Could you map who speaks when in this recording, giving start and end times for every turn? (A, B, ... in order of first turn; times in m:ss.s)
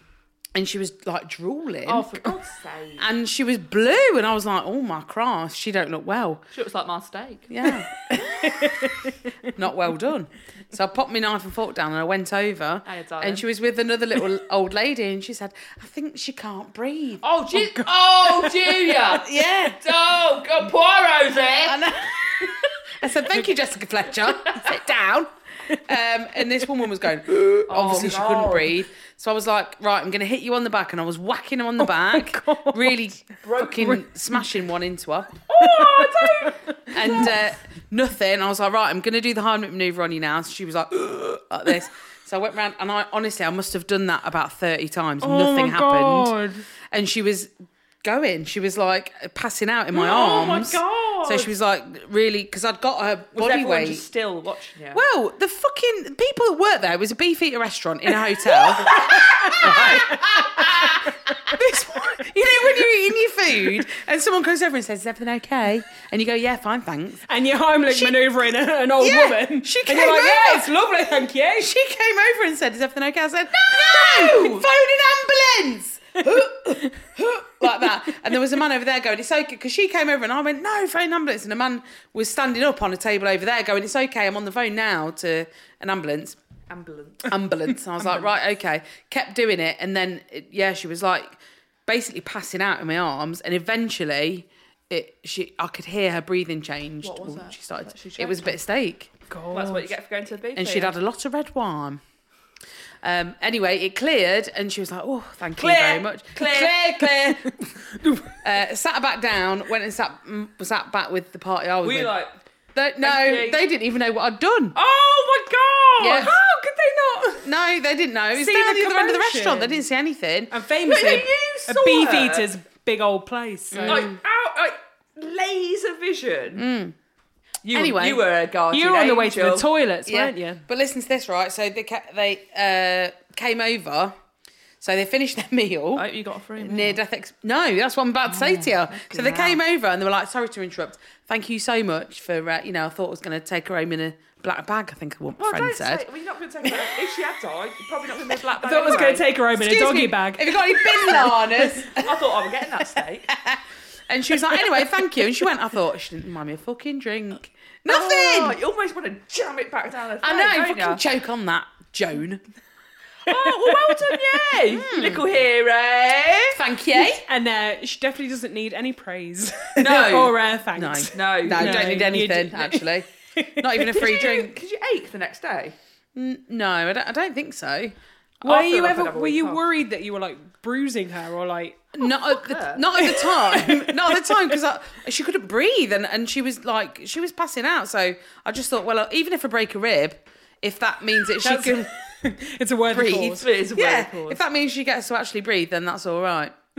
0:00.5-0:02.2 A
0:01.8-0:03.1 B
0:03.0-0:06.4 A
0:06.5-0:07.5 B
0:07.5-0:08.9 A
0:08.2-0:09.2 C
0:09.4-0:17.2 A
0:12.8-0:13.4 B
0:17.2-0:22.5 B
0:17.6-0:19.0 C
0:19.1-0:19.8 A
0:21.6-0:35.4 A
0:27.6-0:28.8 B
0:31.8-0:33.0 C
0:33.4-0:33.9 B
0:33.7-0:34.0 C
0:35.5-0:37.3 B
0:35.6-0:37.3 C
0:36.9-0:46.3 A
0:45.2-0:46.6 C
0:46.9-0:54.0 A
0:49.9-0:51.5 B
0:50.3-0:50.7 C
0:53.3-0:55.0 B
0:54.9-1:07.2 A
0:58.5-1:02.9 C
1:07.3-1:11.7 C
1:07.9-1:08.2 A
1:09.0-1:10.8 A
1:11.6-1:26.4 A
1:13.5-1:14.7 B
1:26.7-1:27.3 B
1:27.2-1:39.1 A
1:37.0-1:38.6 B
1:39.3-1:39.9 C
1:39.5-1:41.0 B
1:40.5-1:42.0 A
1:43.0-1:52.1 A
1:45.6-1:47.2 B
1:51.8-1:52.4 B
1:52.7-1:54.8 A
1:53.0-1:53.6 B
1:54.7-1:56.4 B
1:56.0-1:56.3 A
1:56.2-1:57.4 C
1:57.4-2:00.5 A
1:58.3-1:59.8 C
2:00.5-2:04.1 C
2:00.8-2:02.5 B
2:03.7-2:04.1 A
2:03.8-2:06.6 B
2:06.6-2:07.0 A
2:07.6-2:09.7 B
2:07.7-2:08.2 A
2:08.7-2:10.6 C
2:10.0-2:14.1 A
2:14.8-2:16.0 A
2:15.9-2:17.0 B
2:16.6-2:26.0 A
2:18.3-2:19.6 B
2:25.4-2:29.3 B
2:28.6-2:31.8 C
2:29.5-2:32.2 A
2:31.9-2:33.3 B
2:33.3-2:38.6 A
2:37.9-2:41.0 B
2:40.2-2:42.4 A
2:43.2-2:46.6 B
2:44.7-2:45.2 A
2:46.5-2:47.2 A
2:46.9-2:53.9 C
2:49.8-2:50.3 B
2:49.8-2:54.6 A
2:51.1-2:52.2 B
2:53.8-2:55.8 B
2:56.1-2:58.0 A
2:58.4-2:59.6 B
2:58.4-3:02.0 C
3:01.9-3:11.9 A
3:02.1-3:02.9 B
3:03.0-3:04.6 C
3:11.4-3:13.5 C
3:12.9-3:16.5 A
3:13.4-3:14.4 B